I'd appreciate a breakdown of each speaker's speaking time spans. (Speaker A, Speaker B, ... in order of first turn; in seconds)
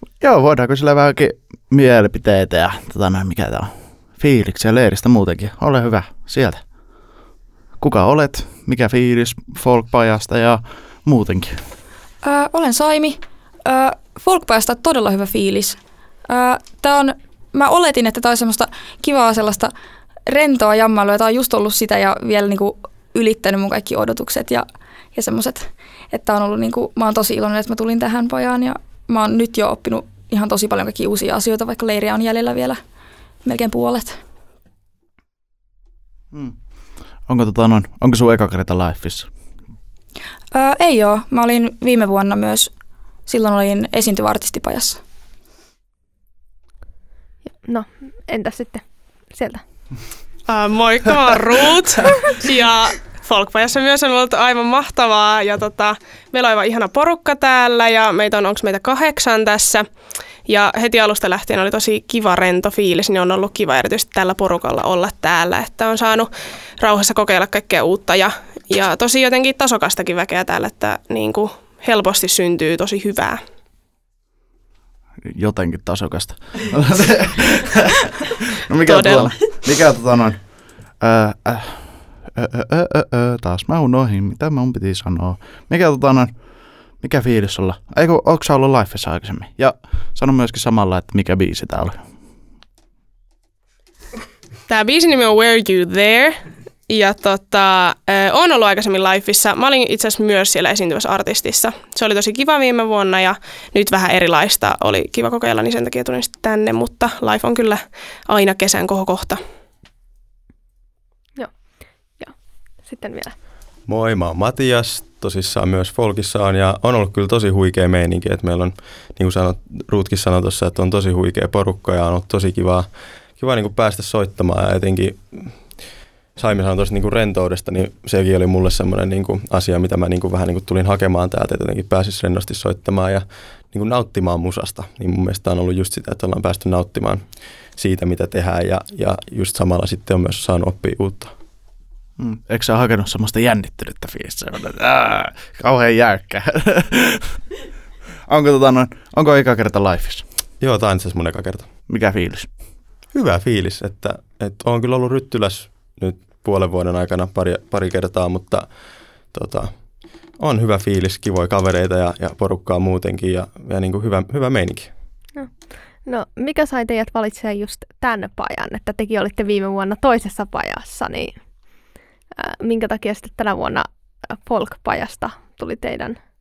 Speaker A: 0.2-6.6, 7.8-11.6, 37.3-39.3, 75.3-77.9, 78.7-80.4, 81.0-86.3, 87.0-92.0, 142.2-147.4, 148.3-150.2, 151.9-152.5
Speaker B: 12.2-15.8, 16.3-19.7, 20.3-32.8, 33.5-34.2, 40.5-42.7, 43.3-45.0
Speaker C: 47.5-49.6, 112.2-113.3, 165.3-171.4, 172.3-176.2
Speaker D: 50.5-59.9, 60.5-73.4, 78.8-79.8, 94.7-109.4
Speaker E: 113.9-125.8, 126.3-141.3, 150.6-151.7, 153.1-158.7, 159.3-159.8, 160.3-165.0